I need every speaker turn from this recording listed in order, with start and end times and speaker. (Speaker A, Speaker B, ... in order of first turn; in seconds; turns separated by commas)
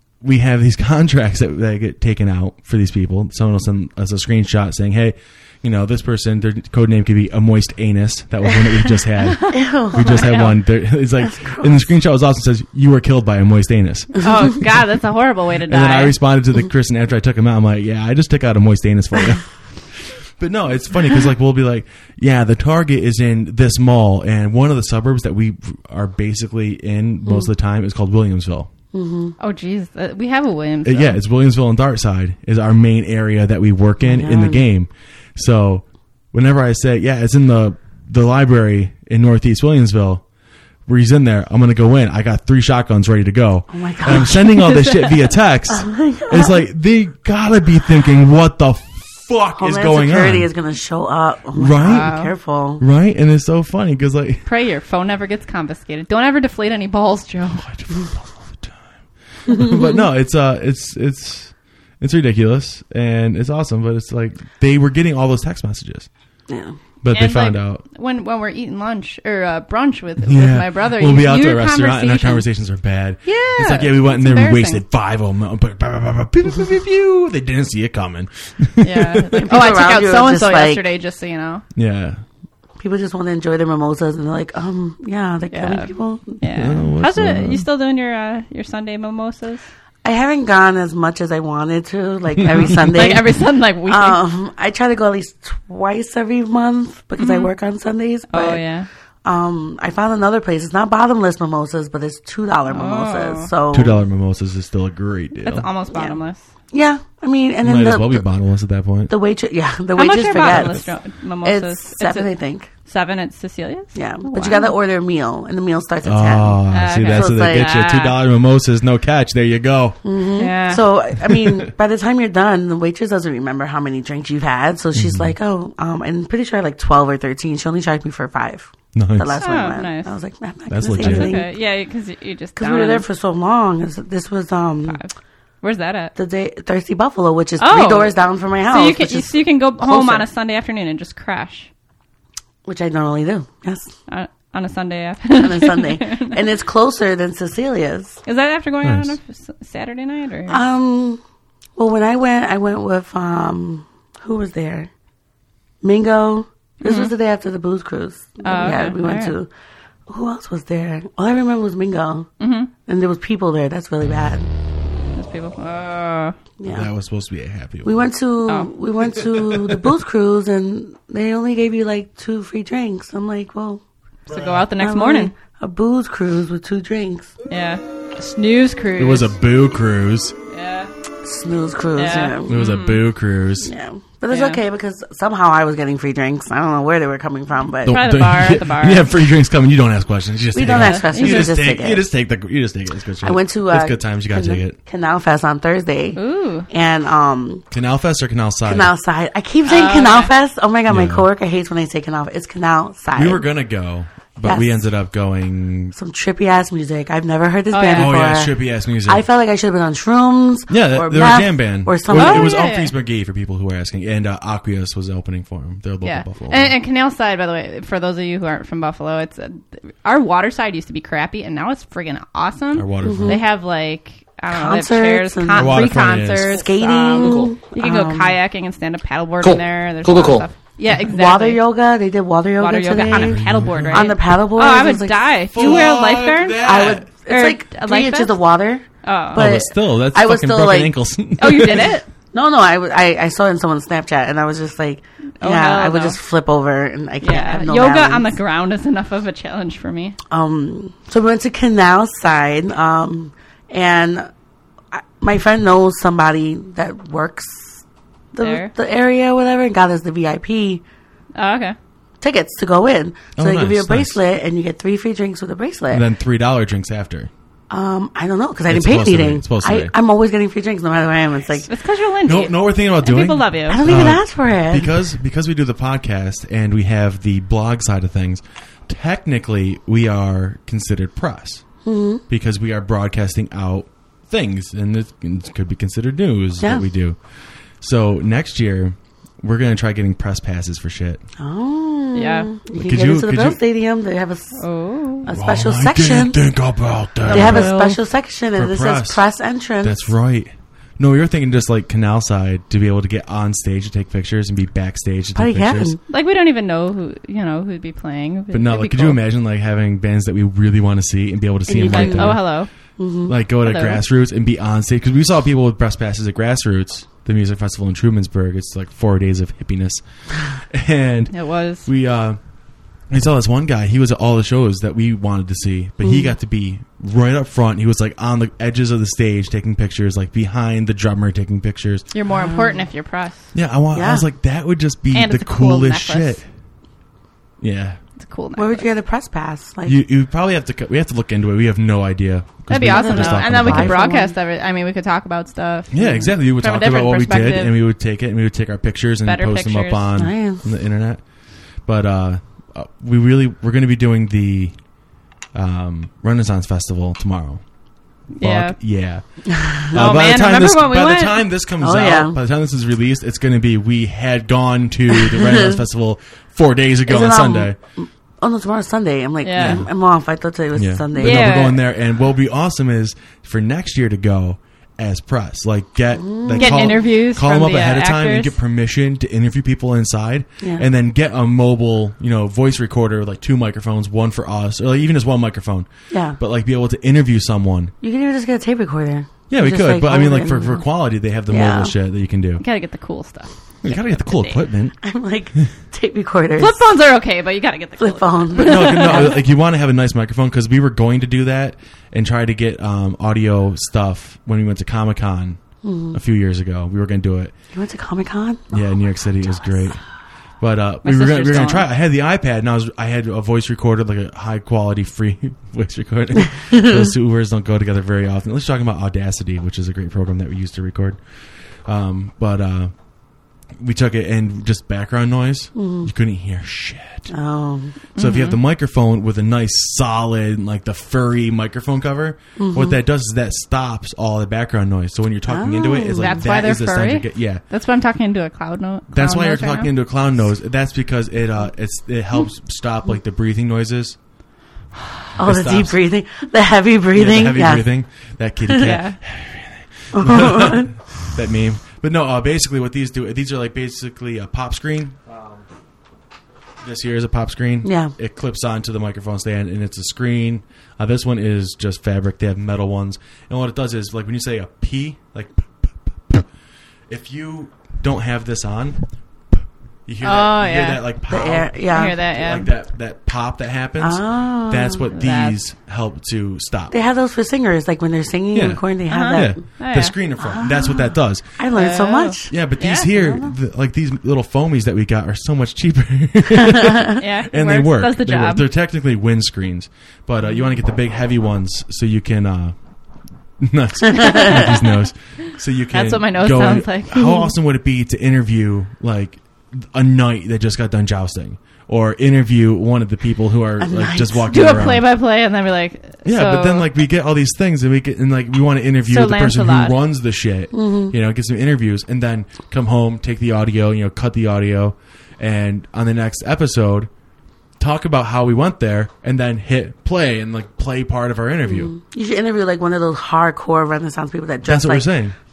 Speaker A: 0.2-14.5, Speaker B: 9.4-10.6, Speaker C: 9.5-10.3, Speaker C: 11.2-11.9, Speaker B: 14.2-16.2, Speaker A: 15.7-28.7, Speaker C: 27.2-27.5, Speaker C: 28.9-29.4, Speaker B: 29.4-31.2, Speaker A: 30.9-40.2, Speaker C: 34.0-34.6, Speaker A: 40.9-50.5, Speaker C: 43.7-44.7, Speaker B: 44.4-45.3, Speaker C: 45.7-46.6, Speaker C: 49.6-52.8, Speaker A: 51.5-52.1, Speaker B: 51.8-52.3, Speaker A: 52.8-54.5, Speaker B: 54.5-57.7, Speaker A: 57.6-66.1, Speaker C: 59.5-59.8, Speaker C: 66.5-66.8, Speaker A: 67.0-67.8, Speaker B: 67.1-72.5, Speaker A: 70.2-79.5, Speaker B: 73.2-74.8, Speaker B: 78.8-81.6, Speaker C: 79.3-80.8, Speaker A: 81.8-82.2, Speaker C: 82.8-86.4, Speaker B: 85.5-89.7, Speaker A: 86.5-87.7, Speaker C: 90.0-98.7, Speaker B: 92.7-94.2, Speaker B: 97.2-97.5, Speaker B: 98.3-98.9, Speaker C: 99.2-104.0, Speaker B: 102.7-103.5, Speaker A: 103.7-105.7, Speaker B: 105.4-106.5, Speaker C: 105.9-106.2, Speaker C: 106.7-108.3, Speaker A: 107.6-109.1, Speaker C: 109.1-110.9, Speaker B: 110.0-112.3, Speaker C: 111.4-112.7, Speaker B: 112.8-114.7, Speaker C: 114.0-117.8, Speaker A: 116.0-120.0, Speaker B: 116.7-118.2, Speaker C: 120.0-131.5, Speaker B: 120.4-120.8, Speaker A: 121.2-121.7, Speaker A: 124.9-125.3, Speaker A: 128.9-129.4, Speaker B: 129.4-130.1, Speaker A: 130.7-131.4, Speaker B: 131.0-133.1, Speaker C: 132.6-135.0, Speaker B: 134.9-136.1, Speaker C: 136.2-140.3, Speaker B: 137.6-138.2, Speaker B: 138.7-141.7, Speaker C: 142.7-143.9, Speaker B: 144.1-146.4, Speaker C: 145.3-148.2, Speaker B: 148.3-150.6, Speaker A: 148.8-149.2, Speaker C: 150.5-151.2, Speaker C: 151.8-154.9, Speaker C: 155.8-159.5, Speaker B: 156.8-157.1, Speaker B: 158.4-159.4, Speaker C: 160.1-162.3, Speaker B: 162.4-162.7, Speaker C: 162.9-164.5, Speaker B: 165.2-166.4, Speaker C: 166.6-166.9, Speaker A: 166.7-168.1, Speaker C: 167.8-173.8, Speaker A: 169.2-169.9, Speaker B: 174.3-175.3, Speaker A: 174.3-174.6, Speaker C: 174.8-177.3, Speaker B: 177.5-179.3, Speaker A: 179.0-180.4, Speaker B: 180.5-180.9, Speaker C: 181.2-182.6, Speaker B: 182.0-183.1, Speaker A: 182.5-183.7, Speaker C: 183.6-188.0, Speaker B: 184.3-184.6, Speaker A: 187.8-194.8, Speaker B: 187.9-189.2, Speaker C: 190.6-192.1, Speaker B: 190.7-191.5, Speaker C: 193.2-196.2, Speaker B: 196.2-196.7, Speaker C: 196.7-197.7, Speaker A: 197.7-198.9, Speaker C: 198.7-203.4, Speaker B: 199.7-200.3, Speaker A: 200.9-201.3, Speaker A: 203.2-205.9, Speaker C: 204.4-204.8, Speaker C: 205.9-212.7, Speaker B: 207.7-208.2, Speaker A: 207.9-209.2, Speaker A: 210.7-216.8, Speaker B: 212.1-212.9, Speaker B: 216.0-231.6, Speaker A: 222.8-223.4, Speaker C: 223.0-223.4, Speaker C: 224.5-228.4, Speaker A: 225.6-226.6, Speaker C: 231.0-235.9, Speaker B: 232.6-236.7, Speaker A: 233.0-234.2, Speaker A: 235.5-237.1, Speaker C: 236.6-241.0, Speaker B: 237.3-238.4, Speaker B: 239.0-239.4, Speaker A: 239.3-241.9, Speaker B: 241.4-242.1, Speaker C: 242.3-248.3, Speaker B: 245.4-246.2, Speaker B: 247.2-250.2, Speaker C: 250.3-254.3, Speaker C: 254.9-257.8, Speaker C: 258.3-260.8, Speaker B: 258.4-258.7, Speaker B: 261.4-261.8, Speaker C: 262.2-266.1, Speaker A: 263.4-264.2, Speaker A: 265.9-267.3, Speaker C: 267.7-271.7, Speaker A: 268.7-269.9, Speaker B: 271.7-273.9, Speaker A: 272.3-281.6, Speaker C: 273.7-274.9, Speaker C: 281.8-282.2, Speaker A: 282.3-287.2, Speaker C: 286.6-286.9, Speaker A: 287.8-291.2, Speaker C: 291.4-294.6, Speaker B: 292.1-292.5, Speaker A: 292.8-293.6, Speaker B: 294.6-295.3, Speaker C: 295.2-296.4, Speaker A: 295.3-297.8, Speaker B: 297.2-298.0, Speaker C: 297.3-300.1, Speaker A: 298.6-299.2, Speaker A: 299.8-305.9, Speaker C: 305.4-306.0, Speaker B: 306.1-309.2, Speaker A: 308.5-312.4, Speaker C: 311.7-312.5, Speaker B: 311.9-312.7, Speaker C: 313.0-313.3, Speaker A: 313.3-321.3, Speaker B: 313.6-314.0, Speaker B: 321.3-321.9, Speaker A: 321.9-322.4, Speaker A: 323.1-332.1, Speaker C: 326.0-326.3, Speaker B: 332.1-333.5, Speaker C: 332.3-332.8, Speaker A: 333.5-336.4, Speaker C: 333.9-334.3, Speaker B: 335.1-336.4, Speaker A: 337.6-338.0, Speaker B: 338.2-338.9, Speaker C: 338.6-340.0, Speaker A: 339.9-344.0, Speaker B: 342.7-347.8, Speaker C: 342.9-344.4, Speaker A: 345.9-351.2, Speaker C: 346.0-346.3, Speaker B: 349.2-350.1, Speaker C: 350.2-350.6, Speaker A: 351.9-354.8, Speaker A: 355.6-357.6, Speaker B: 358.4-358.8, Speaker A: 358.4-367.8, Speaker C: 359.5-359.9, Speaker B: 359.9-361.4, Speaker C: 361.8-362.4, Speaker C: 365.1-365.8, Speaker C: 367.1-371.7, Speaker B: 369.4-369.8, Speaker A: 369.6-369.9, Speaker A: 370.7-387.9, Speaker B: 371.1-371.8, Speaker C: 376.2-377.0, Speaker B: 376.6-378.5, Speaker C: 386.1-386.4, Speaker C: 388.0-390.8, Speaker A: 389.5-392.6, Speaker C: 391.5-391.9, Speaker B: 392.6-394.6, Speaker A: 393.8-394.9, Speaker C: 395.0-397.0, Speaker B: 396.6-399.3, Speaker C: 398.0-399.4, Speaker A: 398.6-405.6, Speaker C: 405.8-406.2, Speaker A: 406.1-407.5, Speaker C: 407.7-408.8, Speaker A: 408.7-410.0, Speaker A: 410.6-421.2, Speaker B: 411.0-411.9, Speaker C: 416.6-416.9, Speaker A: 421.9-422.9, Speaker A: 423.8-427.3, Speaker C: 425.8-426.1, Speaker C: 427.3-427.9, Speaker B: 428.2-428.6, Speaker A: 428.2-437.6, Speaker C: 432.6-433.0, Speaker C: 435.5-436.5, Speaker B: 436.2-439.9, Speaker A: 439.1-444.2, Speaker A: 445.4-446.0, Speaker C: 445.4-447.9, Speaker A: 447.1-455.7, Speaker C: 448.7-448.9, Speaker B: 448.8-449.2, Speaker C: 450.1-450.9, Speaker A: 456.8-466.5, Speaker C: 457.8-458.1, Speaker A: 467.1-469.0, Speaker A: 469.5-477.0, Speaker B: 470.2-471.0, Speaker C: 471.3-472.2, Speaker B: 471.9-472.7, Speaker C: 474.0-475.1, Speaker B: 475.1-475.6, Speaker C: 476.9-479.6, Speaker A: 478.5-481.5, Speaker B: 479.1-480.1, Speaker C: 480.4-482.6, Speaker B: 481.7-483.1, Speaker A: 482.5-492.8, Speaker C: 483.1-483.5, Speaker C: 486.7-487.1, Speaker B: 487.1-488.7, Speaker A: 493.6-505.1, Speaker C: 494.1-494.7, Speaker B: 494.2-494.8, Speaker B: 495.9-497.5, Speaker C: 503.8-504.5, Speaker B: 504.5-506.9, Speaker A: 506.2-517.1, Speaker B: 509.1-510.0, Speaker C: 510.7-511.1, Speaker A: 517.8-521.9, Speaker C: 521.7-525.1, Speaker A: 524.6-525.4